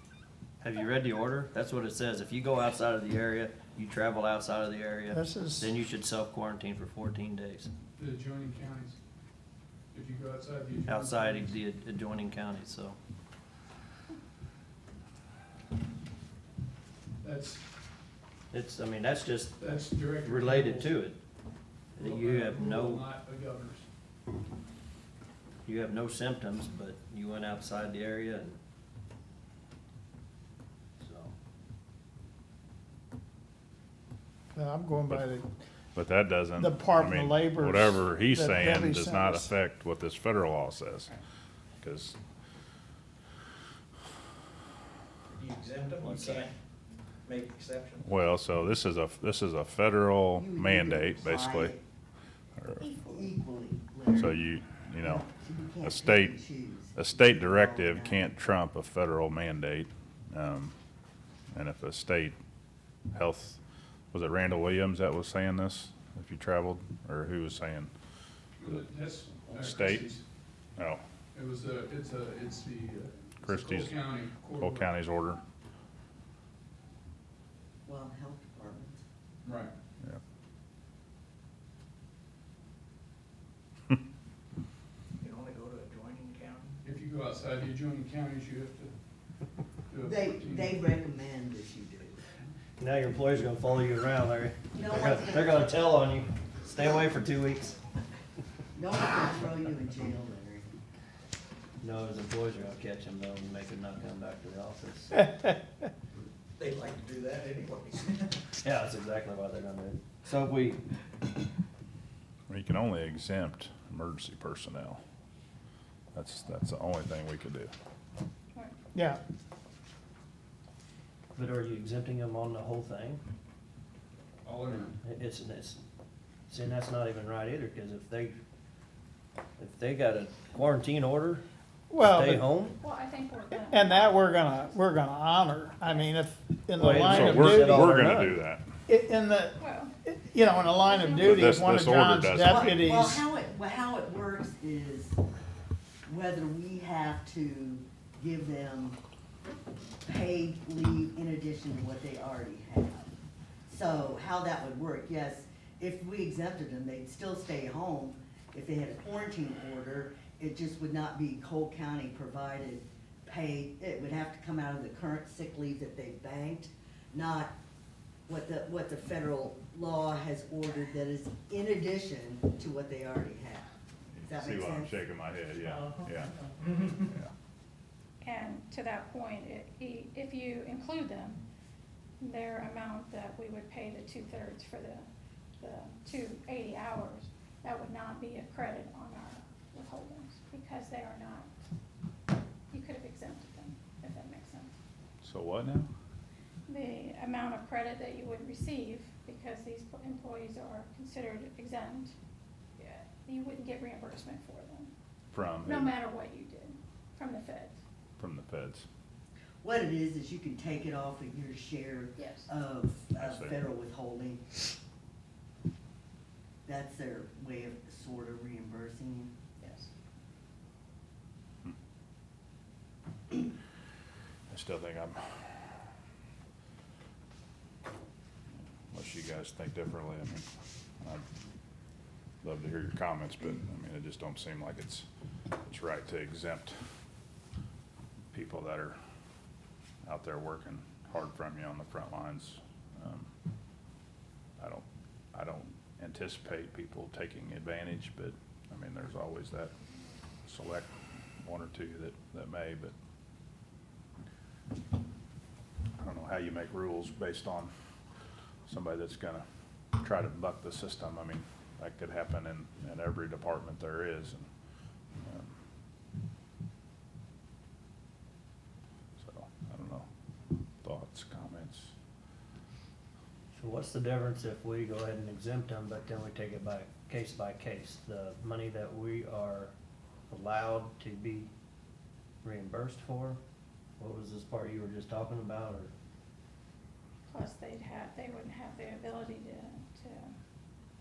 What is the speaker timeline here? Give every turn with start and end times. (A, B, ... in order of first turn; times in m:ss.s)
0:00.6-0:07.7 A
0:05.1-0:05.7 B
0:08.0-0:09.0 C
0:09.9-0:11.6 C
0:10.8-0:13.0 A
0:17.2-0:17.6 C
0:18.5-0:21.2 A
0:19.6-0:21.0 C
0:22.0-0:23.1 A
0:22.0-0:23.8 C
0:25.6-0:28.6 A
0:31.0-0:31.3 A
0:34.6-0:35.6 B
0:36.0-0:41.2 D
0:36.6-0:39.5 B
0:41.8-0:42.2 D
0:45.3-0:46.5 E
0:47.3-0:48.0 E
0:48.0-0:51.7 D
0:50.4-0:51.8 F
0:52.6-0:52.9 D
0:53.0-0:54.4 F
0:54.1-0:55.3 D
0:55.0-0:58.3 F
0:55.8-0:56.4 D
0:57.0-1:00.7 D
1:01.5-1:02.4 D
1:03.1-1:03.6 D
1:04.1-1:07.9 D
1:08.6-1:10.2 C
1:09.5-1:10.1 D
1:10.8-1:11.0 D
1:11.3-1:14.9 C
1:13.4-1:14.0 D
1:14.5-1:15.4 D
1:17.9-1:19.0 F
1:19.4-1:19.7 C
1:25.2-1:26.7 E
1:26.8-1:28.9 C
1:29.9-1:30.7 C
1:30.0-1:32.2 F
1:32.8-1:37.8 A
1:34.7-1:35.7 F
1:38.7-1:40.7 F
1:41.8-1:45.2 A
1:45.2-1:45.5 B
1:46.6-1:48.4 E
1:48.6-1:50.8 A
1:52.5-1:55.0 D
1:56.1-1:57.7 D
2:01.4-2:03.2 A
2:04.4-2:05.0 C
2:05.0-2:05.8 A
2:06.5-2:08.4 A
2:09.6-2:11.4 A
2:11.9-2:12.5 B
2:12.0-2:12.8 A
2:12.8-2:14.6 G
2:13.7-2:18.1 B
2:16.7-2:18.4 A
2:17.0-2:18.7 D
2:18.9-2:23.2 B
2:19.6-2:20.0 G
2:20.7-2:21.6 G
2:21.2-2:22.8 D
2:22.4-2:25.2 F
2:26.1-2:29.0 F
2:30.0-2:33.1 F
2:33.7-2:47.5 F
2:48.3-2:53.7 F
2:54.1-2:57.3 D
2:54.3-2:54.9 F
2:58.2-3:01.4 G
3:02.2-3:05.1 G
3:05.6-3:11.5 G
3:12.7-3:14.7 G
3:15.2-3:15.9 D
3:16.7-3:22.2 G
3:22.8-3:24.9 G
3:25.3-3:25.9 D
3:25.6-3:27.8 G
3:28.2-3:28.9 D
3:29.6-3:34.6 F
3:32.2-3:32.5 G
3:33.2-3:33.6 D
3:36.7-3:39.3 F
3:39.6-3:39.9 G
3:44.5-3:45.7 D
3:48.9-3:50.4 D
3:52.4-3:55.1 D
3:55.6-3:56.8 D
3:58.3-3:59.0 D
4:00.0-4:03.3 D
4:04.6-4:09.7 D
4:10.4-4:10.9 D
4:11.4-4:12.9 D
4:16.0-4:17.7 D
4:18.7-4:19.4 D
4:20.0-4:24.5 D
4:25.2-4:25.5 D
4:29.2-4:30.1 D
4:30.8-4:31.9 D
4:33.5-4:39.7 A
4:40.3-4:41.5 A
4:42.4-4:43.4 A
4:44.0-4:45.9 A
4:47.3-4:50.4 G